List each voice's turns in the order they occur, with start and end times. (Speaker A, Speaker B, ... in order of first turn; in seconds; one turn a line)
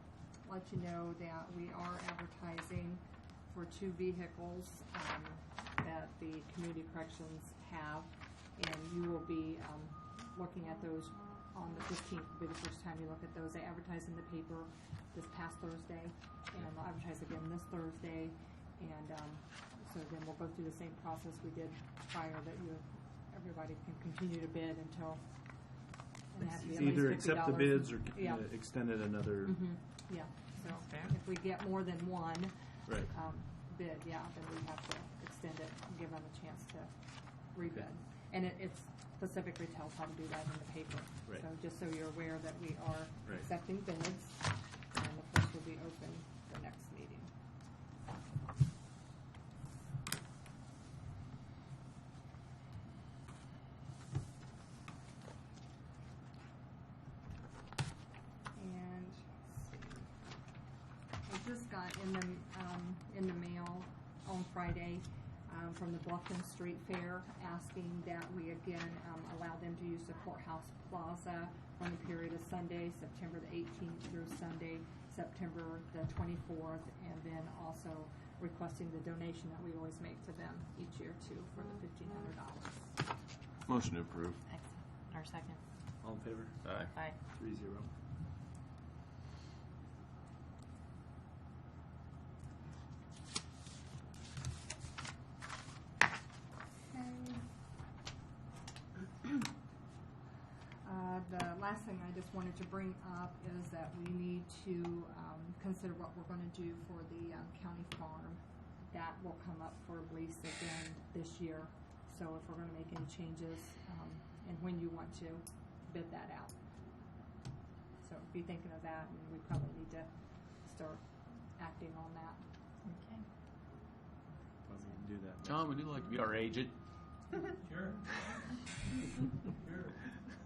Speaker A: 0.4-25.2
Speaker A: 26.3-28.5
Speaker B: 26.4-29.6
Speaker A: 29.4-47.3
Speaker C: 30.6-31.1
Speaker B: 32.9-33.1
Speaker A: 58.5-60.1
Speaker A: 61.2-82.9
Speaker D: 83.7-84.4
Speaker C: 84.5-85.6
Speaker B: 86.0-87.9
Speaker D: 86.6-86.9
Speaker C: 86.9-87.2
Speaker A: 96.8-97.4
Speaker A: 100.8-116.5
Speaker A: 118.0-122.4
Speaker C: 122.8-123.2
Speaker B: 124.6-125.6
Speaker D: 125.4-126.7
Speaker B: 127.7-128.2
Speaker B: 129.6-130.0